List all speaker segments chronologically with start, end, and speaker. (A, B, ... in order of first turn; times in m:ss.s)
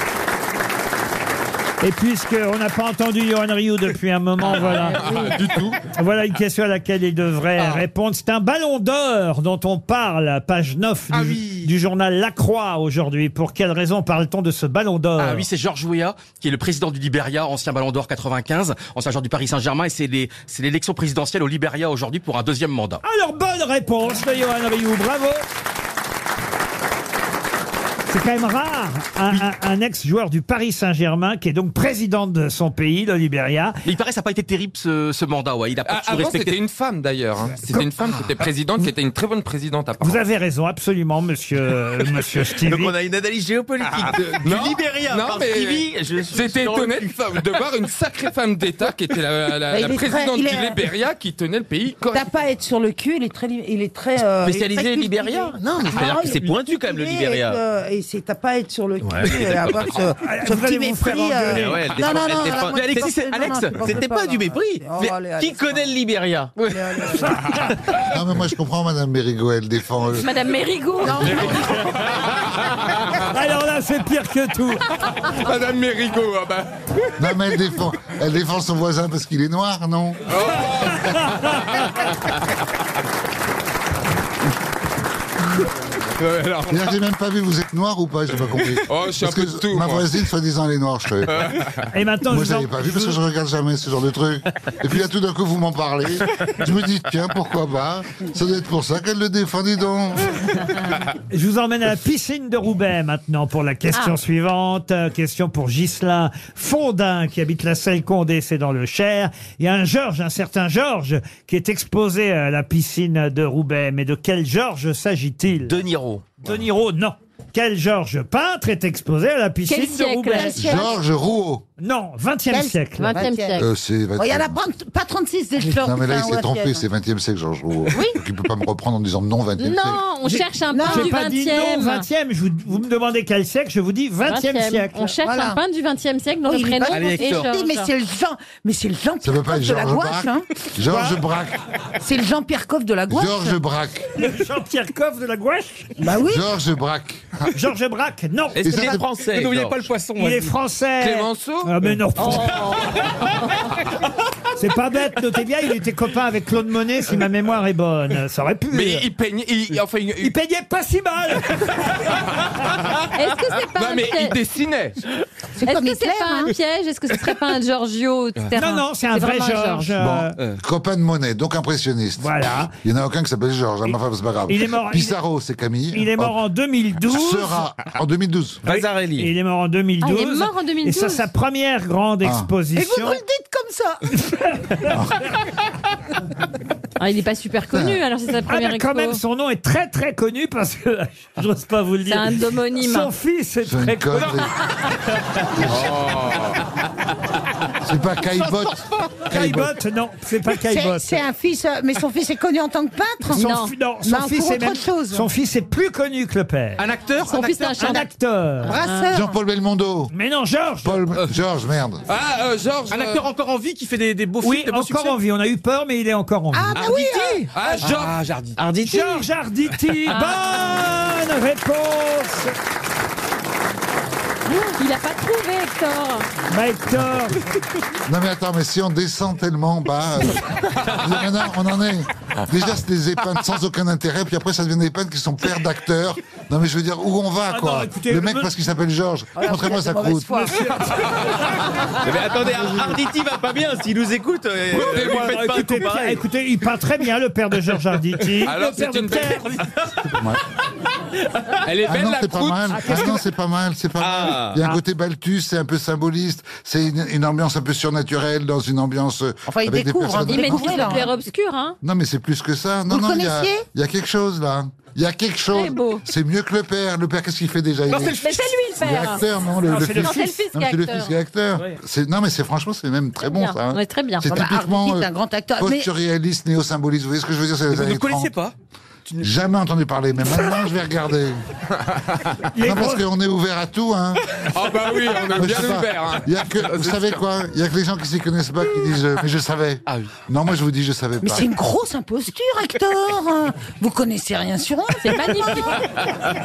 0:01.8-0:05.0 A
0:04.9-0:05.8 B
0:05.9-0:15.5 A
0:11.1-0:11.7 C
0:15.2-0:23.0 C
0:23.0-0:25.4 A
0:28.1-0:33.8 A
0:33.8-0:36.6 C
0:35.8-0:40.2 B
0:40.0-0:42.9 A
0:42.6-0:47.2 D
0:43.8-0:52.3 B
0:49.7-0:50.8 E
0:52.1-1:05.9 E
0:54.4-0:57.6 D
0:59.0-0:59.9 D
1:00.2-1:01.7 A
1:01.5-1:06.5 D
1:02.8-1:03.7 C
1:06.7-1:07.6 E
1:08.1-1:10.3 F
1:10.1-1:11.5 G
1:11.0-1:11.9 E
1:11.1-1:11.6 F
1:13.3-1:14.8 A
1:15.2-1:16.8 B
1:17.2-1:20.4 F
1:20.3-1:22.0 B
1:21.1-1:21.6 A
1:26.2-1:26.9 B
1:26.7-1:31.5 F
1:28.6-1:30.2 B
1:31.3-1:31.7 B
1:31.9-1:33.2 A
1:32.3-1:40.3 F
1:41.3-1:55.8 A
1:55.7-1:56.3 D
1:56.4-2:00.5 A
1:59.6-2:00.8 G
2:00.3-2:01.0 E
2:00.5-2:01.6 F
2:01.8-2:03.2 A
2:02.5-2:03.6 E
2:03.0-2:03.7 G
2:03.6-2:04.6 F
2:04.2-2:06.8 E
2:05.6-2:10.1 F
2:09.6-2:12.0 G
2:10.2-2:15.2 A
2:10.7-2:11.2 E
2:14.2-2:17.9 G
2:15.2-2:15.6 E
2:16.4-2:20.5 E
2:16.9-2:17.5 C
2:19.2-2:21.6 F
2:20.9-2:21.2 A
2:22.0-2:23.6 E
2:23.1-2:24.1 F
2:24.2-2:25.9 A
2:26.0-2:26.5 E
2:26.2-2:27.5 F
2:27.5-2:28.8 A
2:28.6-2:29.8 D
2:28.6-2:29.0 F
2:28.8-2:30.6 C
2:30.2-2:32.6 A
2:31.0-2:31.9 B
2:32.2-2:33.7 G
2:34.6-2:39.0 A
2:38.7-2:40.3 B
2:40.2-2:42.0 A
2:43.1-2:44.4 G
2:43.6-2:45.0 B
2:45.6-2:46.6 E
2:45.6-2:49.9 G
2:48.5-2:50.4 A
2:50.0-2:56.4 F
2:52.2-2:52.7 A
2:54.5-2:55.2 A
2:55.9-2:57.6 A
2:57.0-2:58.6 F
2:58.6-2:59.3 D
2:58.7-3:03.2 A
3:00.0-3:01.3 G
3:02.2-3:02.5 F
3:02.7-3:04.2 E
3:04.3-3:04.9 A
3:04.9-3:05.2 F
3:07.0-3:09.2 G
3:07.7-3:08.0 F
3:08.5-3:14.4 A
3:12.0-3:13.1 G
3:13.6-3:14.5 F
3:15.5-3:16.0 F
3:15.6-3:16.6 B
3:17.8-3:19.7 F
3:19.3-3:21.2 A
3:20.6-3:23.5 E
3:23.3-3:26.8 A
3:23.4-3:23.7 G
3:24.0-3:25.3 E
3:26.8-3:28.0 C
3:27.3-3:28.1 G
3:27.7-3:28.8 A
3:28.6-3:29.3 E
3:28.7-3:29.2 G
3:29.1-3:30.1 F
3:30.1-3:31.0 A
3:30.8-3:32.0 F
3:32.1-3:33.3 B
3:32.9-3:35.2 C
3:34.4-3:36.8 A
3:36.5-3:37.5 E
3:36.8-3:38.6 C
3:37.5-3:38.2 B
3:38.6-3:39.2 D
3:38.8-3:42.5 A
3:40.1-3:40.4 G
3:44.5-3:46.3 G
3:46.5-3:47.4 A
3:48.0-4:00.6 F
3:57.5-3:58.5 A
3:59.4-4:01.0 E
4:00.4-4:01.1 A
4:02.0-4:06.2 D
4:04.7-4:05.5 B
4:04.7-4:09.6 A
4:08.4-4:09.6 B
4:10.0-4:10.4 F
4:11.6-4:13.0 B
4:11.8-4:21.0 F
4:12.7-4:13.2 A
4:14.0-4:14.7 D
4:19.5-4:21.1 E
4:20.2-4:21.8 G
4:21.8-4:38.3 F
4:22.9-4:23.6 E
4:25.5-4:26.0 G
4:27.9-4:28.4 C
4:28.0-4:29.2 G
4:29.7-4:30.4 A
4:29.9-4:31.1 G
4:33.2-4:34.3 G
4:34.3-4:35.9 E
4:37.7-4:38.5 C
4:39.2-4:41.4 F
4:41.9-4:42.3 B
4:42.5-4:43.0 A
4:42.6-4:44.2 F
4:44.4-4:47.1 B
4:45.3-4:51.5 F
4:51.2-4:55.6 E
4:55.0-4:55.8 G